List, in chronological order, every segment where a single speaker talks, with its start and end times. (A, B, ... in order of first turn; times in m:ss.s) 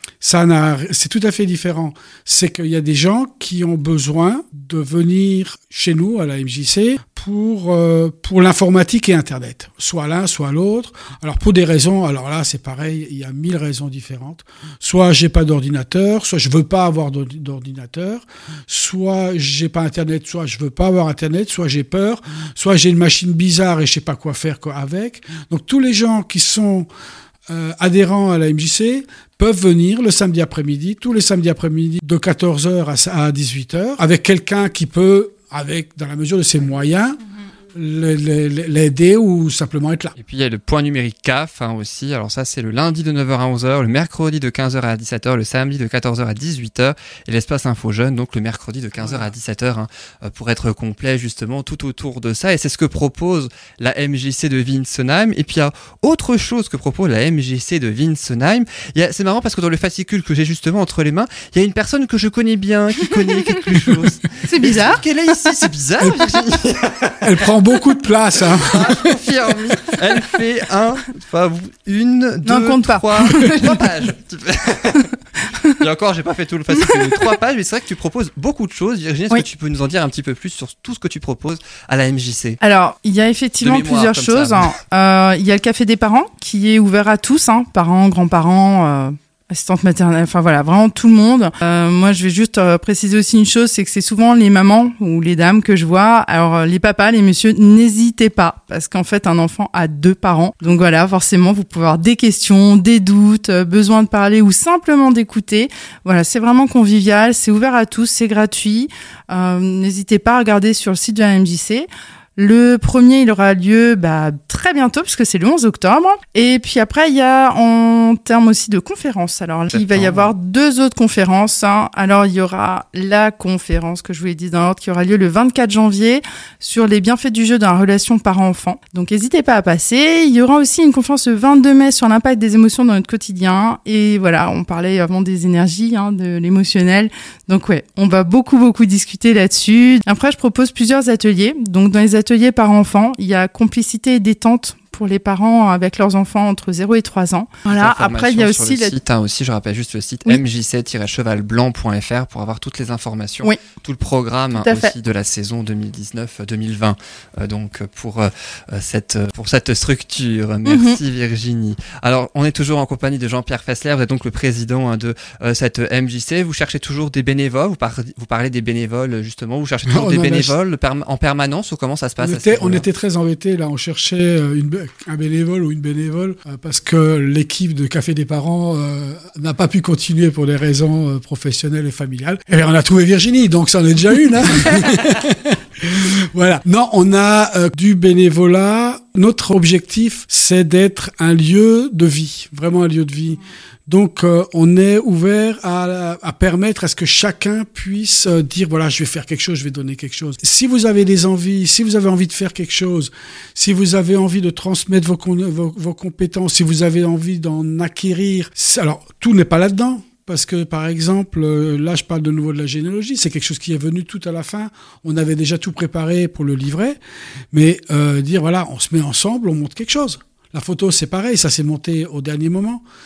0:00.2-0:26.9 A
0:27.5-0:37.2 A
0:37.7-0:40.1 A
0:40.2-1:07.3 B
0:49.0-0:49.3 A
1:04.5-1:05.0 C
1:06.0-1:06.4 A
1:07.2-1:09.0 A
1:08.5-1:15.1 B
1:12.4-1:13.9 C
1:15.8-1:22.6 B
1:16.7-1:17.3 C
1:22.6-2:29.0 C
1:23.6-1:24.7 B
1:59.7-2:00.3 B
2:27.7-2:52.8 B
2:34.5-2:34.9 C
2:40.6-2:41.0 C
2:49.9-2:50.5 A
2:52.2-3:37.0 A
3:37.5-3:42.8 A